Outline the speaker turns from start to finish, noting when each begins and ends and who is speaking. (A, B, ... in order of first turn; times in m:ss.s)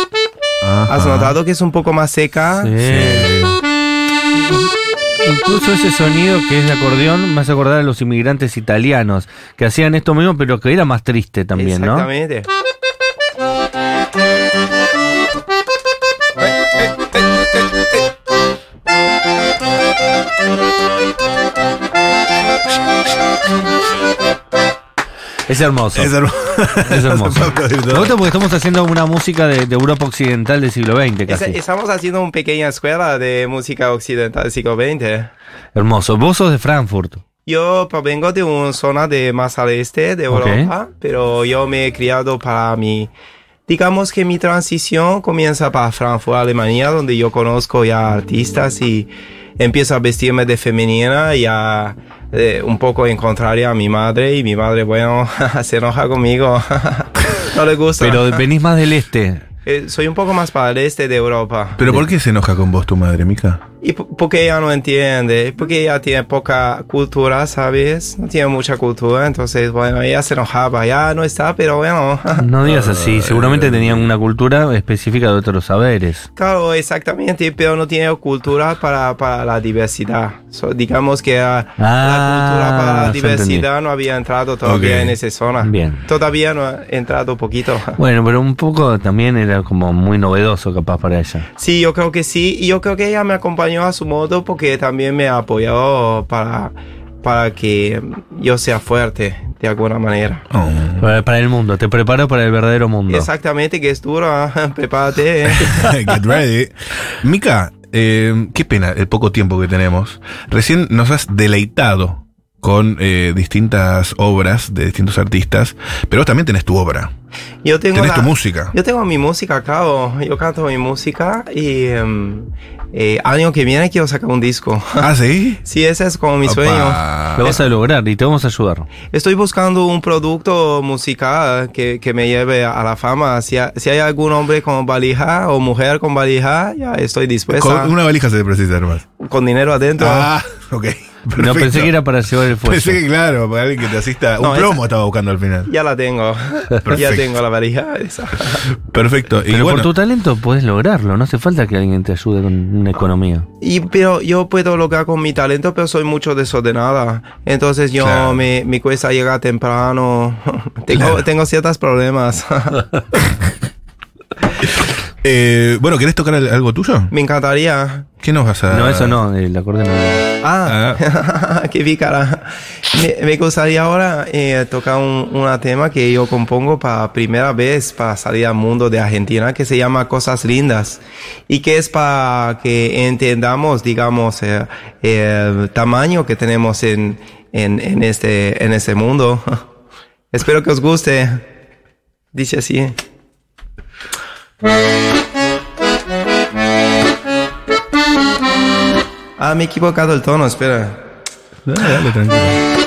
0:00.6-0:01.4 A
0:00.9-0:02.8 B
0:02.6-0:03.3 C
0:02.8-0:03.6 A
0:05.1-0:12.1 C
0:11.6-0:12.5 B
0:25.5-0:26.1 C
0:25.9-0:28.1 A
0:26.8-0:31.6 C
0:31.3-0:35.3 B
0:35.7-0:37.2 C
0:37.4-0:43.1 B
0:40.3-0:40.7 C
0:43.7-0:58.4 B
0:58.0-0:59.4 C
0:59.6-1:01.9 B
1:01.8-1:03.6 A
1:03.8-1:12.5 B
1:12.4-1:16.3 C
1:12.6-1:14.1 A
1:16.4-1:28.0 B
1:21.8-1:23.7 C
1:24.6-1:25.2 A
1:25.6-1:26.0 C
1:28.0-1:31.4 C
1:31.6-1:40.4 B
1:40.5-1:41.1 A
1:41.0-1:43.3 C
1:43.1-1:46.0 B
1:45.6-1:57.1 A
1:57.6-2:05.1 B
1:57.9-1:58.7 A
2:05.0-2:05.6 A
2:05.6-2:07.6 B
2:06.4-2:07.5 A
2:07.3-2:08.9 C
2:09.1-2:17.9 B
2:17.5-2:19.0 A
2:19.2-2:20.3 B
2:20.0-2:21.9 A
2:21.4-2:23.0 C
2:22.6-2:25.7 A
2:24.4-2:24.8 B
2:25.7-2:28.7 B
2:26.8-2:27.4 A
2:28.8-2:29.9 A
2:29.5-2:33.4 C
2:33.6-2:42.8 B
2:38.0-2:38.4 A
2:40.9-2:41.2 A
2:44.8-2:47.1 A
2:47.1-2:48.1 B
2:48.2-2:49.2 A
2:48.7-2:50.2 C
2:50.4-3:09.4 B
2:50.6-2:51.0 A
3:10.3-3:11.4 B
3:12.3-3:13.0 B
3:19.4-3:21.0 B
3:21.6-3:22.6 A